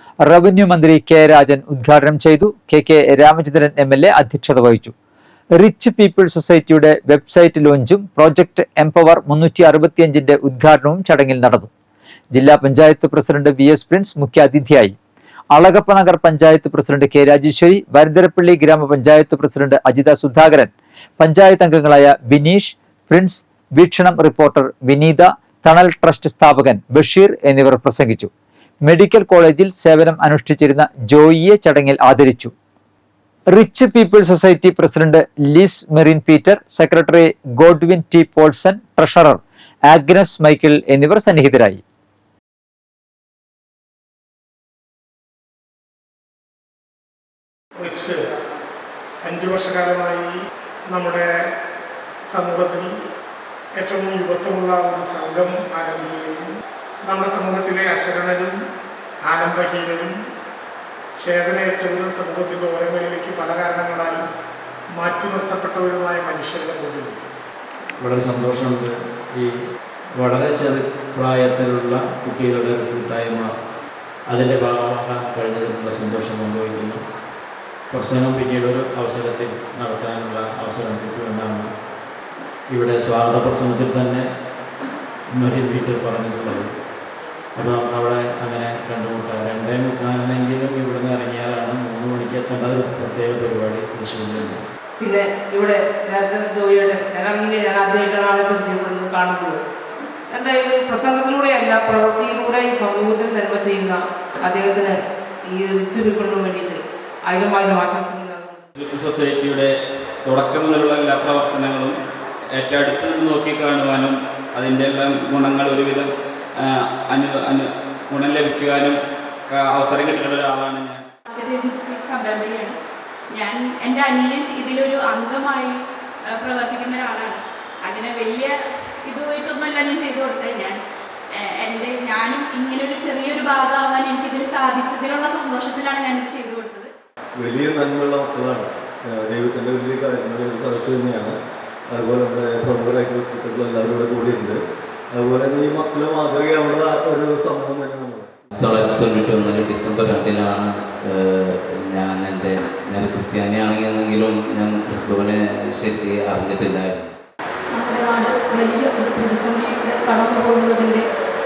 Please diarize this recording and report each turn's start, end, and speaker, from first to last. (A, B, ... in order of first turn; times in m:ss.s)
0:00.2-0:04.9 A
0:05.6-0:11.7 A
0:12.3-0:15.0 A
0:15.5-0:28.3 A
0:28.8-0:32.5 A
0:33.5-0:41.8 A
0:47.8-0:48.2 B
0:49.2-0:50.3 B
0:50.9-0:51.3 B
0:52.3-0:53.0 B
0:53.8-0:58.6 B
0:59.2-1:00.1 B
1:01.2-1:04.2 B
1:05.0-1:07.2 B
1:08.0-1:09.5 C
1:10.2-1:13.5 C
1:14.3-1:17.0 C
1:17.9-1:21.7 C
1:22.7-1:24.3 C
1:25.4-1:26.7 C
1:27.6-1:34.6 C
1:35.0-1:39.6 D
1:40.3-1:45.0 D
1:45.5-1:48.6 D
1:48.9-1:49.7 E
1:50.3-1:51.9 E
1:52.6-1:56.1 E
1:57.1-1:57.6 E
1:58.1-1:58.9 E
1:59.6-2:01.0 E
2:01.3-2:02.8 F
2:03.3-2:05.8 F
2:06.3-2:08.5 F
2:09.1-2:10.8 F
2:11.4-2:16.9 F
2:17.4-2:21.4 G
2:21.9-2:24.6 G
2:25.1-2:28.3 G
2:28.6-2:37.1 H
2:37.7-2:41.1 I